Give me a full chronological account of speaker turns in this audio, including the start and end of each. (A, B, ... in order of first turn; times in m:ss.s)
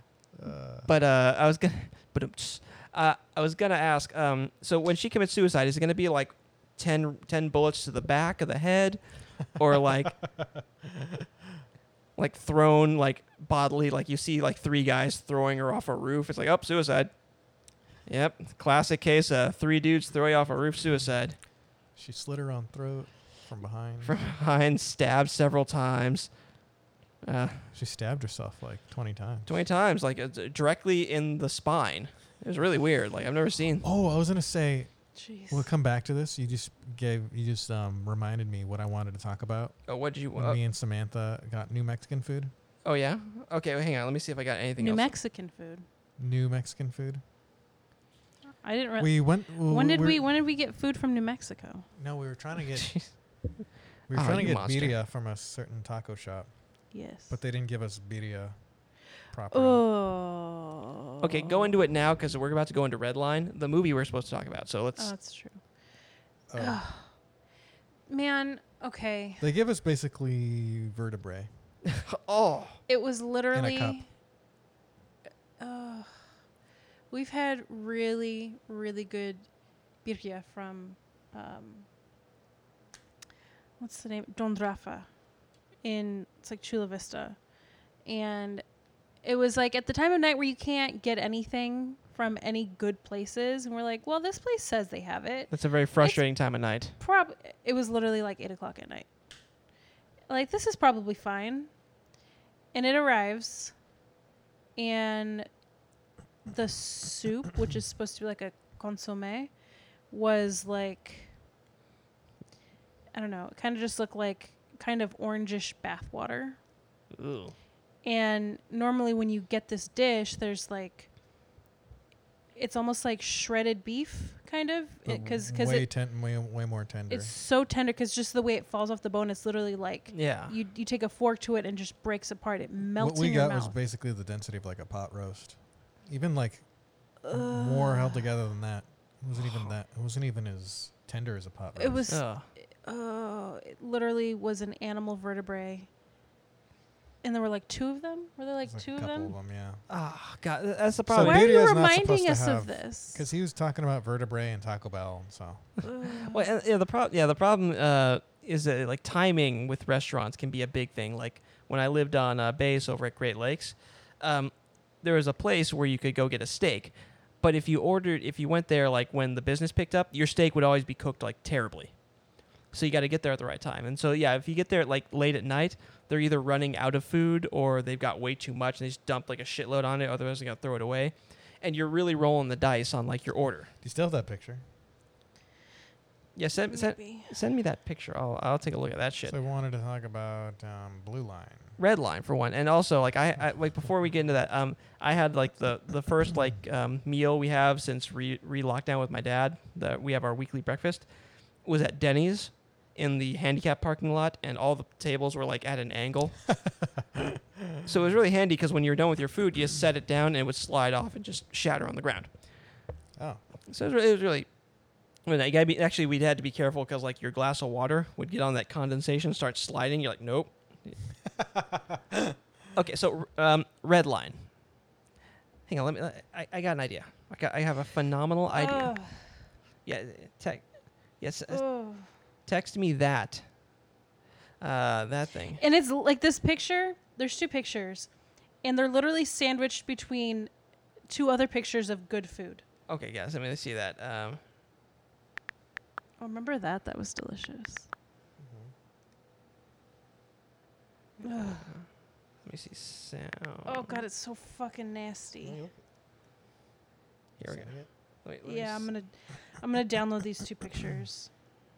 0:00.3-0:00.9 A
0:00.8-0:10.2 B
0:09.9-0:11.3 A
0:12.2-0:17.1 B
0:18.1-0:21.4 B
0:22.0-0:24.2 A
0:24.0-0:26.3 B
0:27.2-0:27.7 B
0:27.7-0:29.6 A
0:29.5-0:33.8 B
0:33.8-0:34.9 A
0:35.1-0:35.7 C
0:35.5-0:39.8 A
0:39.9-0:40.6 B
0:40.3-0:42.5 A
0:42.8-0:45.1 B
0:44.8-0:45.8 C
0:46.2-0:47.2 A
0:48.6-0:51.9 C
0:49.0-0:50.3 A
0:52.0-0:53.0 A
0:52.8-0:53.1 B
0:54.1-0:56.5 A
0:54.1-0:54.9 B
0:56.9-0:57.4 C
0:57.3-0:58.5 A
0:59.3-0:59.8 A
0:59.5-1:01.7 C
1:01.2-1:05.1 B
1:05.0-1:05.6 C
1:06.5-1:06.8 A
1:06.6-1:07.1 C
1:08.1-1:09.4 C
1:09.4-1:11.5 A
1:11.8-1:12.8 B
1:12.9-1:14.1 C
1:13.5-1:14.0 A
1:15.6-1:16.1 C
1:17.1-1:19.4 C
1:20.0-1:21.8 C
1:23.8-1:25.1 C
1:25.8-1:27.4 C
1:28.0-1:28.6 C
1:29.2-1:36.2 C
1:35.5-1:36.9 B
1:37.0-1:39.1 C
1:40.3-1:41.7 C
1:42.7-1:43.7 C
1:44.8-1:45.5 C
1:46.5-1:49.5 C
1:50.1-1:51.3 C
1:53.1-1:56.6 C
1:57.1-1:57.5 B
1:58.0-2:01.1 C
2:02.6-2:05.9 C
2:05.0-2:07.3 A
2:07.1-2:13.7 C
2:10.1-2:10.5 B
2:13.0-2:16.6 A
2:17.2-2:18.2 C
2:17.3-2:22.1 A
2:21.8-2:22.3 C
2:22.1-2:22.4 B
2:22.8-2:25.9 C
2:27.2-2:29.3 C
2:28.6-2:29.8 A
2:29.9-2:31.5 B
2:31.1-2:35.7 A
2:31.2-2:33.2 C
2:35.9-2:36.4 C
2:36.2-2:51.9 B
2:52.7-3:03.7 B
3:03.8-3:04.6 A
3:06.4-3:09.3 B
3:06.6-3:07.3 C
3:09.2-3:11.8 A
3:11.8-3:21.0 B
3:21.6-3:26.4 B
3:26.7-3:27.8 A
3:27.8-3:32.3 B
3:33.7-3:34.5 B
3:35.2-3:41.0 B
3:41.3-3:42.4 A
3:42.7-3:44.4 B
3:45.7-3:48.9 B
3:48.6-3:49.2 C
3:49.8-3:50.6 B
3:51.2-3:51.6 B
3:51.5-3:52.1 C
3:52.5-3:53.4 B
3:54.6-3:55.6 B
3:55.6-3:58.1 C
3:58.6-4:00.5 C
4:01.1-4:02.6 C
4:02.9-4:04.4 B
4:06.2-4:07.9 C
4:08.4-4:08.7 A
4:11.2-4:11.7 C
4:11.2-4:11.9 B
4:12.4-4:14.0 B
4:13.6-4:15.6 C
4:15.4-4:15.8 A
4:17.4-4:18.9 B
4:17.5-4:17.9 A
4:18.4-4:21.3 C